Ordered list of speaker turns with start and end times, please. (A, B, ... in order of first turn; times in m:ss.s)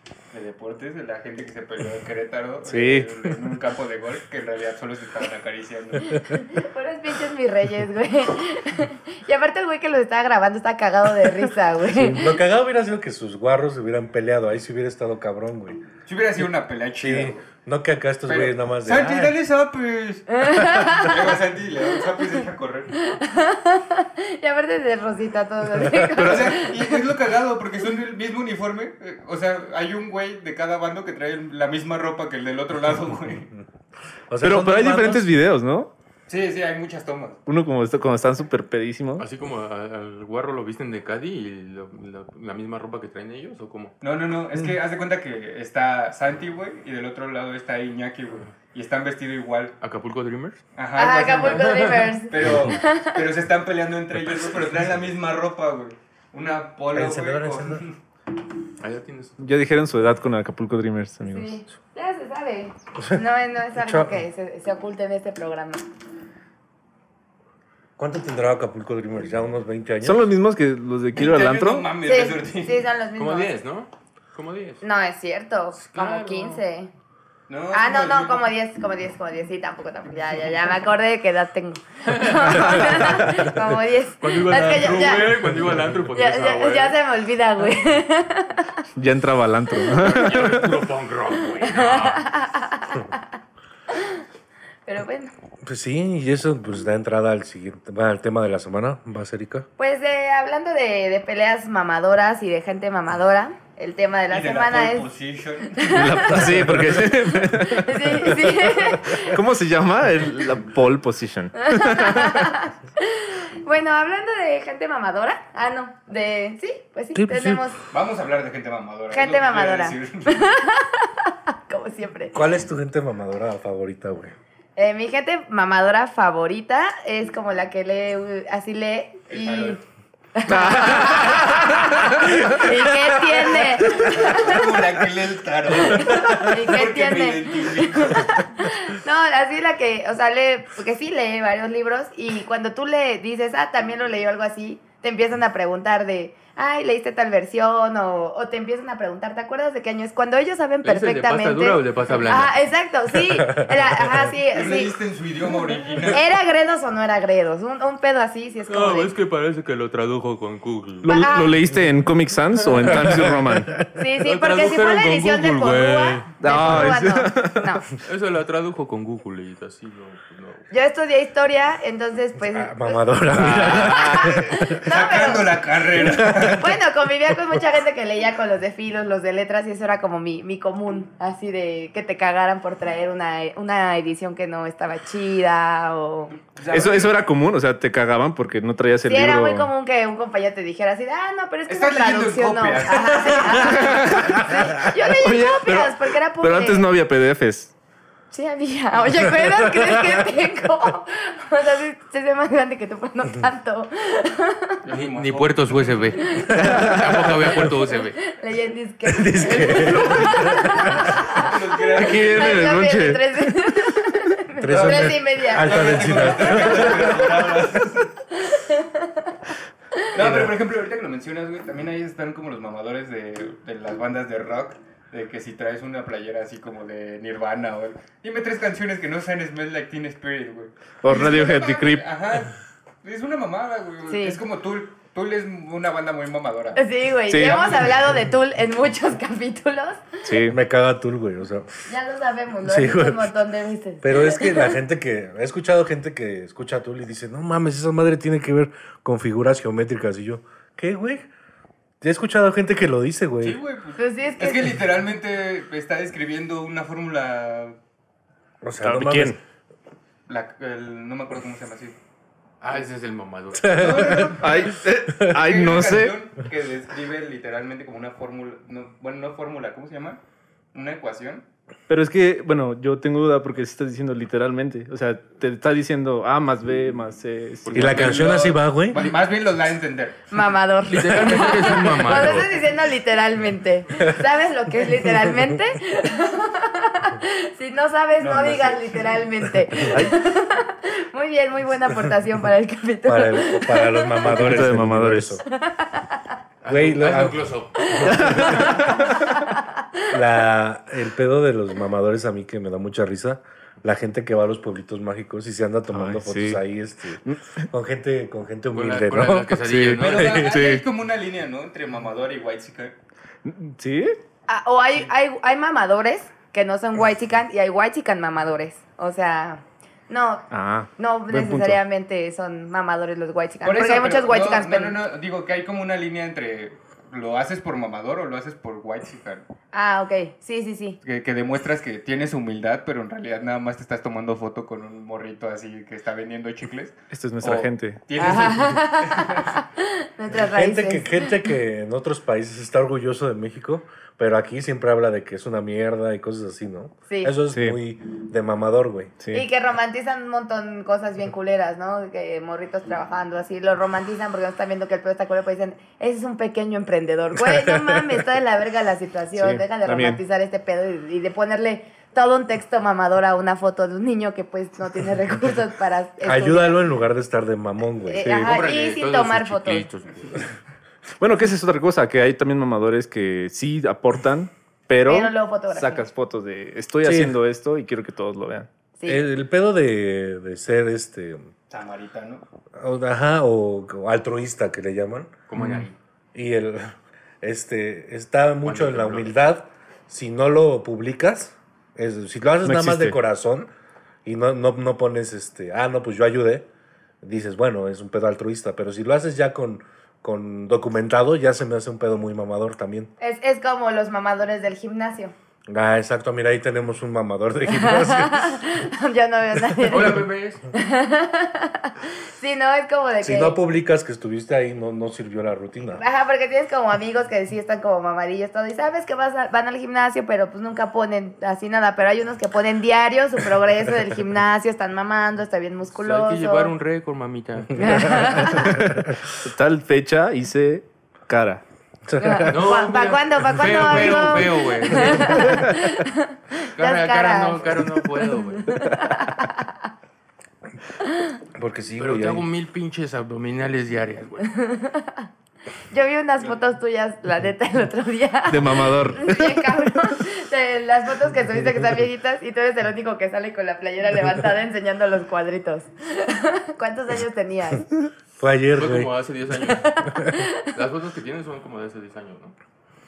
0:00.3-0:06.3 A
0:02.6-0:03.4 B
0:06.3-0:12.3 C
0:11.9-0:15.8 D
0:16.0-0:17.4 A
0:17.0-0:19.4 D
0:18.2-0:22.9 A
0:20.3-0:21.2 C
0:23.0-0:27.0 C
0:25.7-0:26.3 D
0:26.2-0:33.5 A
0:34.3-0:35.3 D
0:34.4-0:35.9 B
0:36.3-0:37.4 A
0:37.4-0:39.2 B
0:39.2-0:44.0 E
0:44.0-0:49.7 A
0:49.8-0:50.6 E
0:50.8-0:58.0 A
0:51.0-0:53.2 C
0:51.3-0:52.1 E
0:56.9-0:57.8 D
0:58.8-0:59.4 E
0:59.4-1:01.6 B
1:01.3-1:05.8 C
1:03.8-1:04.2 D
1:08.0-1:10.3 D
1:10.0-1:11.9 B
1:11.1-1:12.8 A
1:12.0-1:13.6 C
1:13.2-1:14.8 E
1:14.8-1:16.9 C
1:15.8-1:16.6 E
1:17.5-1:18.5 A
1:17.7-1:25.4 C
1:22.1-1:23.3 E
1:24.2-1:27.0 E
1:26.1-1:28.7 C
1:29.0-1:30.8 B
1:30.0-1:32.3 E
1:31.6-1:33.2 C
1:33.9-1:34.2 C
1:34.9-1:35.3 C
1:35.6-1:39.6 D
1:39.8-1:45.1 C
1:44.3-1:45.9 A
1:45.7-1:46.5 C
1:45.8-1:52.6 B
1:46.4-1:47.1 D
1:47.4-1:49.4 C
1:51.6-1:57.8 C
1:57.1-1:57.7 D
1:57.9-2:00.5 A
1:59.1-2:02.4 C
2:02.3-2:04.3 D
2:04.8-2:09.8 C
2:09.3-2:09.8 A
2:10.3-2:14.7 C
2:10.5-2:13.2 B
2:13.5-2:18.4 A
2:15.7-2:35.0 C
2:30.8-2:32.6 E
2:33.3-2:34.3 D
2:34.5-2:36.2 A
2:36.1-2:39.1 C
2:38.7-2:41.2 E
2:41.0-2:43.8 B
2:41.0-2:41.6 C
2:43.9-2:47.8 C
2:44.2-2:46.3 E
2:46.4-2:47.8 B
2:48.0-2:50.7 E
2:50.7-2:53.0 C
2:52.4-2:54.9 D
2:53.3-2:54.3 E
2:53.7-2:55.7 C
2:54.8-2:56.8 A
2:56.0-2:56.6 D
2:56.4-3:06.3 C
2:57.3-2:57.6 D
3:06.3-3:07.2 A
3:06.7-3:09.7 B
3:09.0-3:16.9 C
3:11.7-3:14.1 A
3:13.6-3:17.7 B
3:18.3-3:24.8 C
3:19.4-3:20.2 D
3:24.8-3:26.3 A
3:24.9-3:28.2 E
3:26.2-3:26.8 C
3:26.6-3:27.0 B
3:26.6-3:27.0 D
3:27.6-3:36.6 C
3:29.0-3:31.1 D
3:29.7-3:30.3 E
3:31.3-3:32.7 A
3:31.9-3:33.5 B
3:34.6-3:37.8 D
3:34.7-3:38.1 A
3:38.4-3:39.2 C
3:40.1-3:56.8 A
3:40.2-3:40.5 D
3:51.0-3:52.1 B
3:51.1-3:51.4 C
3:54.1-3:54.4 C
3:56.8-4:00.1 C
3:57.3-3:57.8 B
3:57.3-3:58.1 A
4:00.2-4:00.6 B
4:00.5-4:01.9 D
4:01.9-4:04.8 C
4:02.6-4:03.3 D
4:04.0-4:11.3 D
4:12.0-4:13.6 D
4:13.4-4:17.8 A
4:14.0-4:14.7 C
4:18.6-4:19.4 D
4:18.8-4:19.4 B
4:20.3-4:22.0 A
4:22.6-4:24.2 E
4:23.6-4:24.4 D
4:23.7-4:30.2 A
4:24.4-4:26.2 B
4:30.7-4:31.4 A
4:31.9-4:38.1 B
4:37.6-4:38.2 E
4:37.7-4:39.1 D
4:37.8-4:40.2 A
4:40.3-4:54.3 C
4:40.9-4:42.6 E
4:48.2-4:49.2 A
4:49.9-4:50.2 B
4:53.0-4:55.4 D
4:54.2-4:55.4 B
4:55.5-4:56.2 C
4:56.6-4:58.7 E
4:56.6-4:58.8 D
4:57.8-5:00.1 C
4:58.1-4:59.1 B
5:00.1-5:10.4 D
5:05.9-5:06.6 B
5:07.2-5:07.7 B
5:08.7-5:10.5 E
5:09.6-5:10.9 B
5:10.0-5:12.9 A
5:13.4-5:14.2 B
5:14.5-5:25.0 C
5:20.5-5:21.8 B
5:23.6-5:29.4 A
5:29.7-5:31.0 C
5:31.0-5:39.5 A
5:37.1-5:38.7 B
5:38.2-5:41.4 C
5:40.4-5:49.2 D
5:47.5-5:47.8 B
5:49.2-5:49.4 B
5:49.3-6:06.8 C
5:57.4-5:58.2 D
5:59.3-6:00.2 B
6:06.2-6:08.3 D
6:08.1-6:09.9 C
6:08.2-6:08.6 B
6:08.4-6:10.5 E
6:11.2-6:18.7 B
6:15.0-6:16.0 C
6:17.0-6:17.4 D
6:19.0-6:19.2 C
6:19.0-6:21.5 D
6:21.7-6:22.4 A
6:22.8-6:25.3 D
6:25.5-6:25.9 E
6:25.6-6:25.9 B
6:26.3-6:33.7 D
6:28.6-6:29.3 E
6:32.6-6:33.2 B
6:34.2-6:36.7 D
6:37.2-6:43.1 D
6:43.2-6:45.3 C
6:45.7-6:48.6 D
6:47.7-6:53.6 C
6:49.9-6:50.6 E
6:53.2-6:56.0 D
6:55.9-7:06.7 C
7:05.9-7:07.9 E
7:07.8-7:08.8 C
7:07.9-7:08.9 D
7:08.4-7:11.6 B
7:12.1-7:12.8 D
7:12.2-7:19.8 C
7:12.5-7:15.5 E
7:15.2-7:15.7 B
7:16.8-7:18.7 E
7:21.5-7:22.5 D
7:22.0-7:24.5 E
7:24.4-7:25.3 C
7:25.9-7:37.9 C
7:28.5-7:29.5 B
7:38.4-7:39.1 D
7:38.7-7:40.0 E
7:39.8-7:40.6 C
7:40.6-7:42.5 E